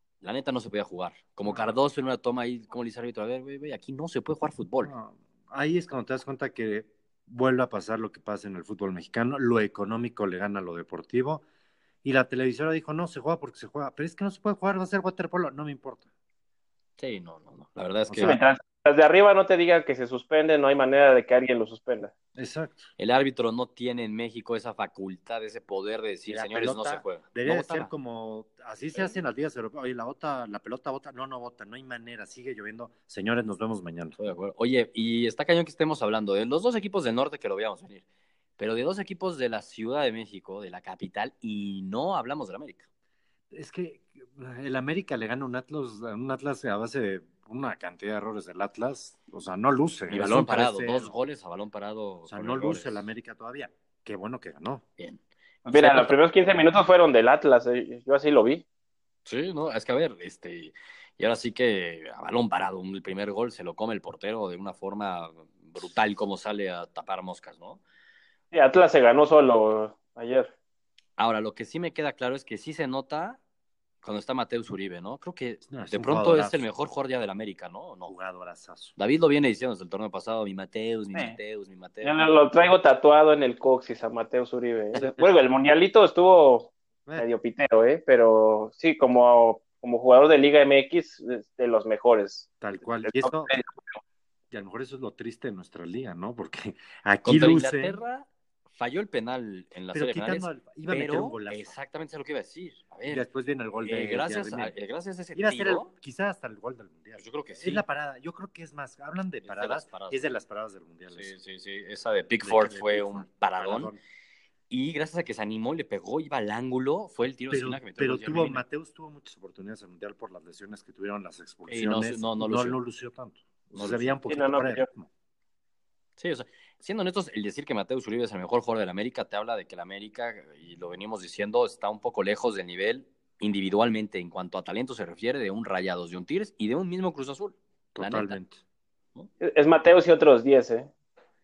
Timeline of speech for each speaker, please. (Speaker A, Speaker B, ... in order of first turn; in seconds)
Speaker A: 0.2-4.9, 17.0-18.4, 23.0-27.9, 34.2-38.0, 38.6-42.9, 50.1-53.0, 55.0-56.1, 59.2-67.8, 71.2-73.4, 74.0-78.1, 79.0-82.2, 97.2-103.2, 103.8-105.9, 107.2-107.8, 109.4-110.3, 111.1-113.9, 114.7-118.6, 121.7-122.8, 123.7-124.2, 126.2-138.4
Speaker B: 1.4-1.8, 4.8-11.4, 12.0-16.1, 18.1-18.4, 22.3-22.9, 26.3-34.2, 43.5-51.2, 52.3-54.8, 75.7-76.6, 78.1-78.9, 92.6-93.5, 94.5-98.0, 99.9-101.8, 103.1-104.7, 105.3-111.3, 112.4-114.0, 117.5-125.1, 137.9-138.6
Speaker C: 18.2-22.1, 55.6-58.6, 68.5-70.5, 82.0-92.5, 93.0-94.0, 124.3-124.9, 139.4-140.9